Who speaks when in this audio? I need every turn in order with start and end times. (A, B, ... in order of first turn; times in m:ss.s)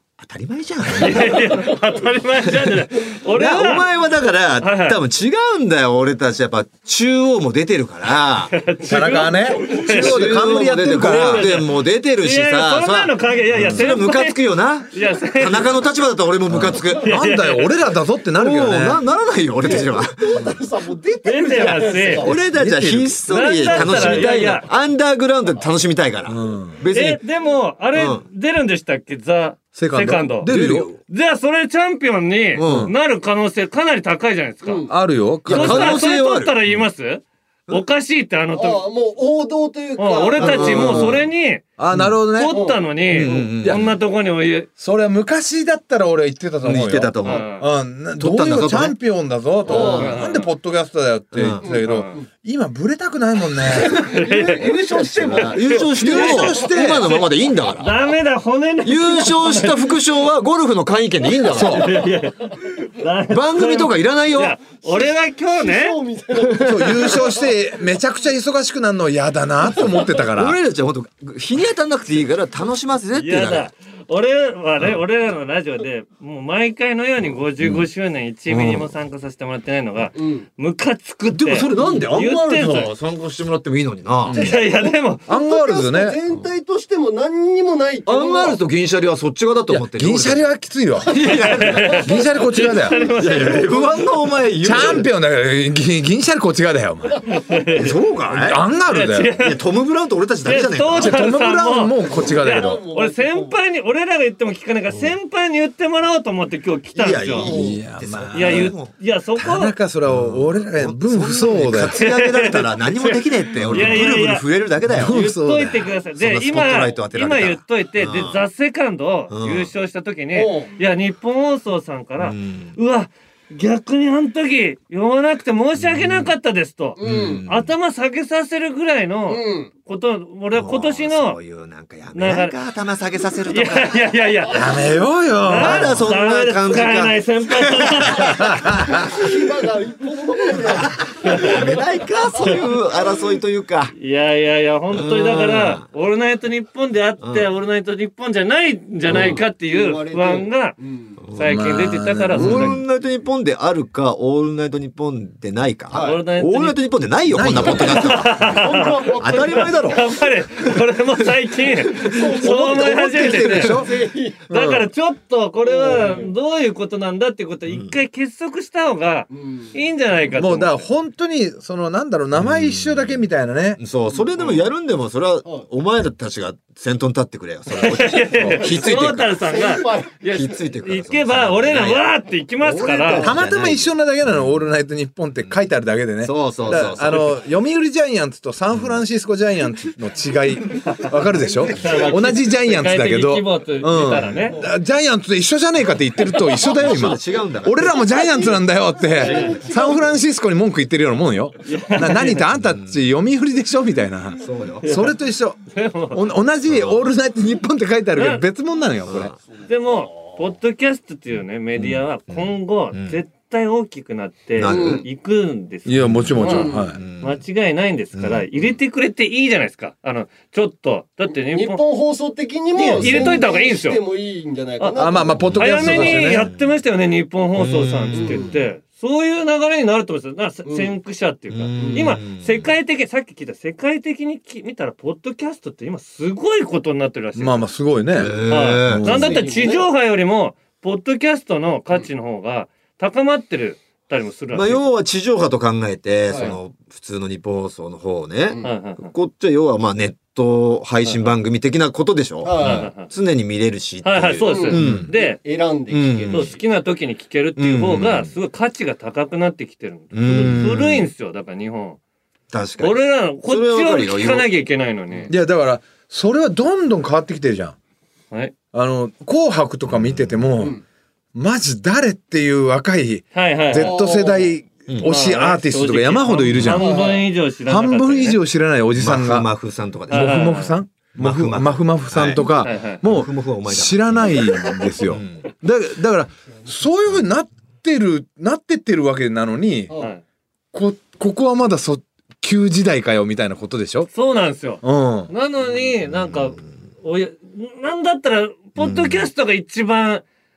0:00.2-0:01.5 A
0:01.0-0:03.9 B
0:01.0-0:02.0 C
0:03.3-0:08.6 A
0:04.6-0:05.0 B
0:08.5-0:15.8 B
0:08.8-0:11.6 D
0:08.9-0:10.2 C
0:09.8-0:17.2 A
0:13.5-0:13.9 D
0:16.5-0:19.0 D
0:16.8-0:17.8 B
0:18.3-0:20.6 A
0:19.6-0:22.4 C
0:21.2-0:22.3 B
0:21.6-0:27.2 A
0:22.5-0:24.2 D
0:23.3-0:24.7 B
0:23.6-0:24.3 C
0:26.3-0:26.8 D
0:26.9-0:30.5 B
0:27.9-0:28.2 A
0:29.7-0:30.9 D
0:30.4-0:31.0 A
0:31.1-0:34.9 B
0:32.6-0:32.9 A
0:32.6-0:32.9 D
0:34.6-0:34.9 C
0:34.9-0:36.0 D
0:35.4-0:38.8 B
0:35.5-0:36.6 A
0:38.5-0:41.2 C
0:40.0-0:41.6 B
0:40.4-0:41.3 A
0:41.8-0:42.6 D
0:41.9-0:42.2 A
0:42.3-0:44.7 B
0:42.5-0:43.4 C
0:43.1-0:44.0 A
0:43.2-0:43.9 D
0:44.8-0:54.0 D
0:46.6-0:47.5 A
0:47.2-0:47.6 B
0:48.2-0:49.0 A
0:49.6-0:50.4 C
0:49.7-0:50.5 B
0:51.3-0:51.6 A
0:51.6-0:52.2 C
0:51.8-0:52.2 B
0:53.6-0:56.4 C
0:53.7-1:00.0 B
0:55.2-0:57.9 A
0:55.9-0:57.1 D
0:58.8-1:02.0 A
1:01.5-1:01.9 D
1:01.6-1:06.0 B
1:03.3-1:04.6 A
1:04.8-1:07.6 C
1:06.6-1:10.6 D
1:10.2-1:13.7 A
1:13.1-1:22.9 B
1:17.6-1:17.8 A
1:18.5-1:18.9 A
1:20.2-1:20.4 C
1:21.3-1:24.5 A
1:21.8-1:22.1 C
1:24.3-1:28.6 C
1:24.3-1:25.2 B
1:25.3-1:26.2 D
1:28.0-1:30.5 A
1:29.7-1:31.2 D
1:31.0-1:32.1 A
1:31.2-1:33.7 B
1:31.9-1:33.0 D
1:32.6-1:34.3 C
1:33.2-1:35.1 A
1:34.6-1:37.2 D
1:37.2-1:38.0 B
1:37.7-1:38.6 A
1:38.2-1:39.4 D
1:38.9-1:39.6 B
1:39.4-1:41.3 A
1:40.4-1:47.5 B
1:41.0-1:42.8 D
1:42.0-1:43.6 C
1:46.9-1:48.9 A
1:47.4-1:47.8 C
1:47.4-1:48.7 D
1:48.3-1:49.7 B
1:49.4-1:52.0 D
1:50.0-1:58.4 A
1:51.9-1:54.4 B
1:53.5-1:54.2 D
1:54.9-1:55.8 D
1:55.0-2:11.4 B
1:59.3-1:59.7 A
2:00.3-2:00.7 C
2:02.2-2:02.8 A
2:05.8-2:06.3 A
2:07.0-2:07.5 C
2:07.0-2:07.7 A
2:09.3-2:09.7 C
2:10.5-2:13.9 A
2:12.1-2:12.5 B
2:13.5-2:14.8 B
2:14.5-2:16.1 D
2:15.4-2:18.7 B
2:15.5-2:19.0 A
2:18.2-2:19.1 D
2:18.9-2:22.7 C
2:20.7-2:23.9 A
2:21.2-2:21.7 B
2:23.9-2:30.8 B
2:24.9-2:25.8 A
2:27.2-2:27.5 A
2:29.1-2:29.4 A
2:29.1-2:31.2 C
2:31.2-2:31.8 A
2:31.3-2:32.8 B
2:31.4-2:32.8 D
2:32.3-2:40.2 A
2:35.9-2:36.2 C
2:35.9-2:36.8 B
2:37.3-2:38.0 D
2:37.6-2:50.9 B
2:37.8-2:40.6 C
2:41.8-2:44.5 C
2:42.4-2:44.9 D
2:45.6-2:46.3 C
2:47.7-2:48.0 A
2:49.3-2:49.8 C
2:50.4-2:53.8 D
2:52.4-2:53.1 A
2:53.8-2:59.4 A
2:54.1-2:54.6 C
2:57.7-3:03.3 B
2:58.4-2:58.6 D
2:58.7-3:00.2 C
3:00.2-3:02.1 A
3:02.6-3:04.5 A
3:02.8-3:03.2 C
3:03.2-3:25.6 D
3:06.2-3:07.4 A
3:11.7-3:14.6 B
3:11.8-3:12.1 C
3:14.1-3:14.5 A
3:16.6-3:18.0 A
3:19.1-3:20.1 C
3:19.2-3:19.6 B
3:21.7-3:22.4 B
3:24.4-3:25.0 A
3:24.8-3:25.2 B
3:25.7-3:26.3 B
3:26.1-3:29.3 D
3:26.7-3:27.1 A
3:28.1-3:28.4 B
3:29.0-3:29.4 A
3:29.7-3:41.8 B
3:31.8-3:33.2 A
3:34.5-3:35.0 A
3:34.6-3:35.0 C
3:35.8-3:37.0 D
3:36.0-3:37.4 A
3:36.4-3:36.9 C
3:38.1-3:38.8 A
3:41.5-3:46.4 C
3:42.7-3:44.0 B
3:43.0-3:43.3 A
3:44.8-3:57.7 B
3:45.0-3:46.5 D
3:45.4-3:45.7 A
3:46.4-3:46.7 A
3:47.5-3:48.6 A
3:48.1-3:48.6 C
3:50.6-3:50.9 C
3:51.5-3:52.7 A
3:51.8-3:52.2 C
3:57.4-3:59.4 D
3:58.1-3:59.4 A
3:58.5-4:04.8 B
3:59.0-3:59.9 C
4:04.5-4:15.1 A
4:06.3-4:06.5 C
4:08.6-4:09.1 B
4:12.4-4:12.9 C
4:12.6-4:13.1 B
4:14.0-4:15.4 B
4:14.4-4:16.6 C
4:14.8-4:15.1 D
4:15.9-4:16.5 A
4:16.3-4:22.0 B
4:17.6-4:18.3 A
4:20.1-4:21.1 A
4:22.5-4:24.4 A
4:22.8-4:25.3 B
4:25.3-4:27.8 D
4:28.7-4:30.8 D
4:29.9-4:30.4 A
4:31.3-4:39.5 D
4:33.3-4:34.0 B
4:33.7-4:34.5 C
4:35.0-4:38.4 B
4:36.7-4:37.2 C
4:39.0-4:40.5 A
4:40.1-4:49.9 D
4:40.1-4:40.7 B
4:41.2-4:45.5 A
4:42.6-4:43.0 B
4:50.0-4:50.2 B
4:50.7-4:54.1 D
4:54.1-5:00.2 B
4:54.8-4:55.3 D
4:56.1-4:56.4 A
4:58.8-4:59.3 A